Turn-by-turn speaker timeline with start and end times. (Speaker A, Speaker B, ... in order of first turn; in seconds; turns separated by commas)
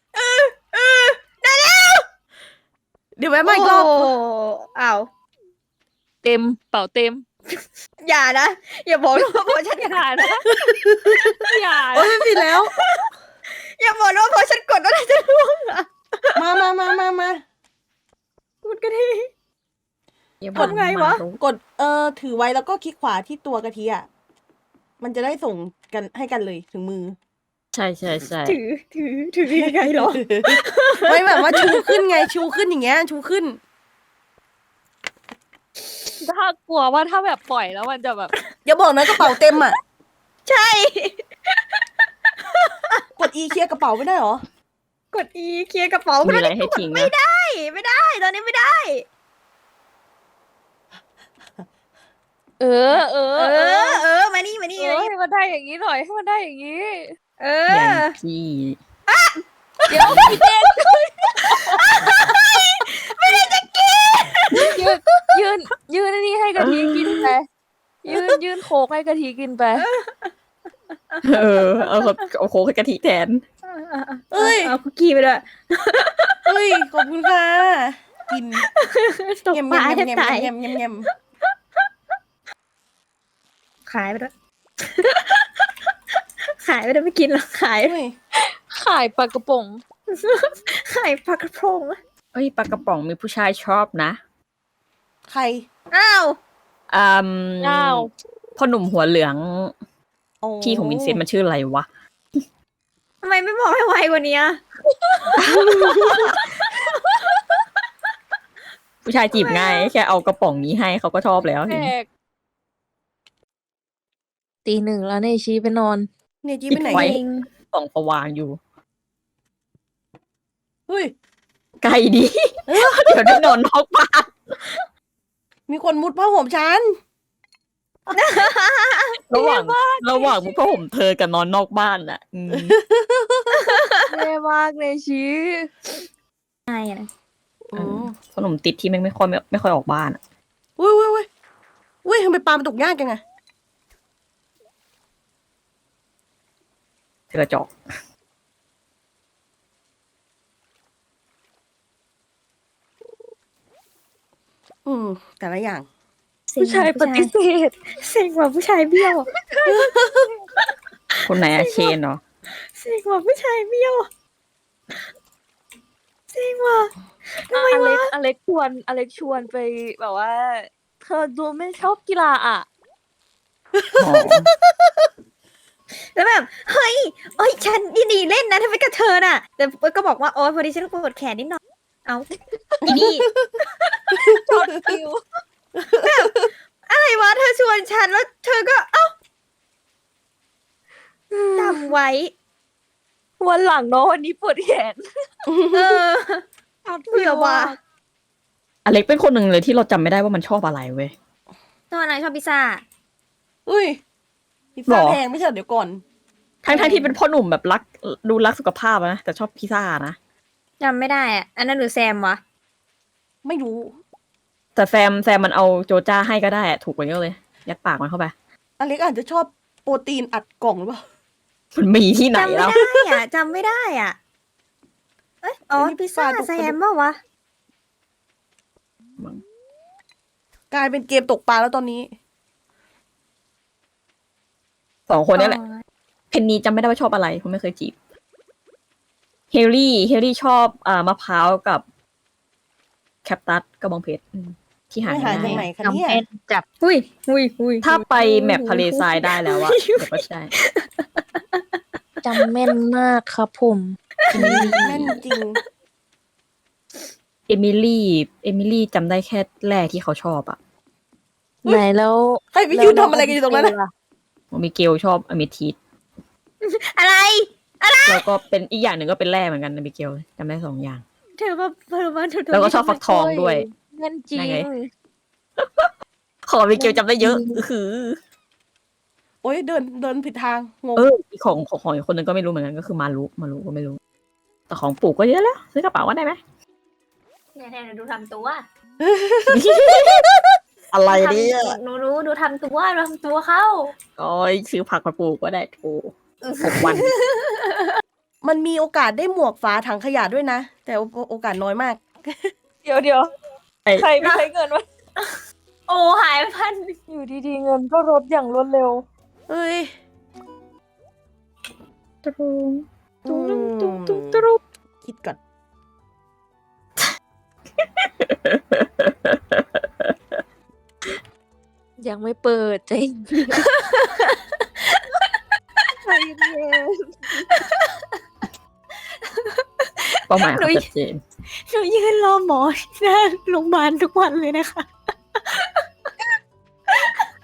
Speaker A: 0.1-2.0, Speaker B: 3.2-4.1, Speaker A: 3.4-5.1, Speaker C: 6.2-7.2, Speaker A: 8.0-10.3, Speaker C: 9.8-10.5, Speaker B: 10.6-11.3, Speaker A: 11.2-11.5, Speaker C: 11.5-12.1, Speaker B: 11.9-12.7, Speaker A: 12.7-16.4, Speaker B: 16.3-17.4, Speaker A: 18.6-19.3, Speaker D: 20.4-21.4, Speaker A: 20.5-21.2, Speaker B: 21.4-24.1, Speaker B: 25.0-27.1, Speaker D: 27.7-28.6, Speaker A: 28.4-32.0, Speaker B: 29.5-33.6, Speaker C: 36.2-38.3, Speaker B: 38.6-39.8, Speaker A: 39.1-39.4, Speaker A: 40.5-41.8, Speaker A: 42.4-43.0, Speaker B: 43.2-44.4, Speaker A: 45.1-49.0, Speaker D: 46.2-47.1, Speaker C: 52.6-54.0, Speaker A: 52.9-55.1, Speaker C: 54.8-57.1, Speaker A: 57.4-58.1, Speaker D: 57.7-58.8, Speaker A: 59.1-60.4, Speaker C: 59.9-61.8, Speaker D: 60.0-60.4, Speaker A: 60.9-64.8, Speaker C: 64.5-67.5, Speaker D: 66.6-67.2, Speaker C: 68.0-69.8, Speaker A: 69.8-70.3, Speaker A: 71.1-72.2, Speaker D: 71.2-73.4, Speaker A: 73.7-76.5, Speaker B: 74.3-74.7, Speaker B: 76.5-78.6, Speaker A: 78.6-80.5, Speaker B: 79.5-81.1, Speaker A: 83.9-84.3, Speaker A: 84.8-85.5, Speaker A: 86.5-88.0, Speaker B: 87.8-88.1, Speaker C: 88.4-89.8, Speaker A: 90.1-92.0, Speaker D: 92.3-94.2, Speaker B: 95.3-95.6, Speaker A: 95.9-96.4, Speaker D: 96.9-99.7, Speaker C: 97.6-98.1, Speaker B: 100.4-101.2, Speaker D: 100.6-101.8, Speaker A: 103.2-104.6, Speaker A: 105.3-107.3, Speaker B: 105.4-106.2, Speaker D: 105.4-106.4, Speaker D: 109.0-111.9, Speaker A: 109.3-109.9, Speaker C: 111.7-112.1, Speaker C: 114.6-116.1, Speaker B: 116.4-117.2, Speaker D: 116.7-118.6, Speaker A: 116.9-117.5, Speaker B: 120.9-121.1, Speaker D: 121.8-124.4, Speaker B: 122.7-123.5, Speaker B: 125.7-127.0, Speaker A: 128.1-129.2, Speaker D: 129.3-132.8, Speaker C: 129.3-130.6, Speaker B: 132.5-133.6, Speaker A: 133.5-134.0, Speaker C: 134.1-135.7, Speaker A: 136.7-137.1, Speaker B: 137.7-138.1, Speaker D: 137.7-140.2, Speaker B: 140.8-141.3, Speaker B: 142.0-143.2, Speaker D: 147.3-147.7, Speaker B: 154.8-155.9, Speaker A: 156.5-157.3, Speaker C: 156.6-157.8, Speaker A: 158.0-159.3, Speaker C: 159.3-159.9, Speaker B: 159.6-160.3, Speaker A: 161.1-161.9, Speaker D: 161.2-162.2, Speaker A: 162.5-164.1, Speaker A: 166.3-168.1, Speaker C: 167.5-172.7, Speaker B: 173.7-175.1, Speaker D: 174.0-174.5, Speaker A: 176.1-182.3, Speaker A: 182.8-183.3, Speaker B: 182.8-183.6, Speaker A: 183.8-184.1, Speaker B: 184.1-184.9, Speaker C: 184.3-185.2, Speaker B: 185.8-186.5, Speaker A: 186.0-186.3, Speaker A: 186.9-189.1, Speaker C: 191.3-191.9, Speaker A: 191.5-192.3, Speaker C: 193.4-195.4, Speaker B: 195.5-196.0, Speaker A: 195.7-197.8, Speaker C: 197.1-197.8, Speaker D: 198.8-201.1, Speaker A: 201.9-202.8, Speaker B: 203.7-204.0, Speaker B: 204.8-206.0, Speaker D: 204.9-205.2, Speaker D: 206.6-210.2, Speaker A: 206.7-207.1, Speaker A: 210.8-212.4, Speaker B: 213.4-214.0, Speaker D: 214.8-218.3, Speaker B: 218.8-221.0, Speaker D: 221.7-222.8, Speaker A: 222.3-224.2, Speaker B: 222.7-223.0, Speaker A: 225.4-227.2, Speaker B: 225.8-226.8, Speaker B: 230.7-232.1, Speaker D: 235.1-235.6, Speaker A: 235.3-235.8, Speaker D: 236.3-237.9, Speaker D: 239.5-241.8, Speaker D: 243.2-245.7, Speaker B: 245.0-246.2, Speaker C: 245.4-246.6, Speaker A: 246.8-251.8, Speaker D: 247.8-250.5, Speaker C: 252.2-254.0, Speaker A: 254.2-255.0, Speaker D: 254.3-255.2, Speaker B: 254.3-255.6, Speaker D: 257.5-260.6, Speaker C: 261.6-263.9, Speaker B: 262.5-263.7, Speaker D: 264.5-265.8, Speaker A: 266.6-268.2, Speaker D: 268.1-271.0, Speaker A: 271.4-273.0, Speaker D: 272.5-273.6, Speaker C: 273.0-274.9, Speaker D: 274.3-274.7, Speaker D: 275.6-275.9, Speaker D: 276.4-278.2, Speaker C: 276.7-277.6, Speaker B: 279.4-281.1, Speaker D: 280.9-284.0, Speaker D: 284.7-286.4, Speaker A: 287.5-288.6, Speaker B: 289.0-289.6, Speaker D: 289.5-290.3, Speaker D: 290.9-291.8, Speaker A: 291.1-293.9, Speaker D: 294.2-297.1, Speaker A: 296.4-298.0, Speaker B: 298.4-302.5, Speaker C: 302.8-303.3, Speaker D: 303.9-304.4, Speaker C: 304.0-304.9, Speaker A: 305.9-307.0, Speaker C: 307.1-309.0, Speaker B: 309.5-309.9, Speaker D: 312.2-314.5, Speaker B: 313.2-314.4, Speaker B: 315.0-315.4, Speaker D: 317.8-320.1, Speaker C: 322.0-323.6, Speaker A: 323.6-324.4, Speaker C: 326.0-327.2, Speaker A: 327.5-327.9, Speaker A: 329.4-330.8, Speaker D: 330.3-331.2, Speaker A: 331.6-334.9, Speaker A: 335.4-335.8, Speaker A: 336.9-337.3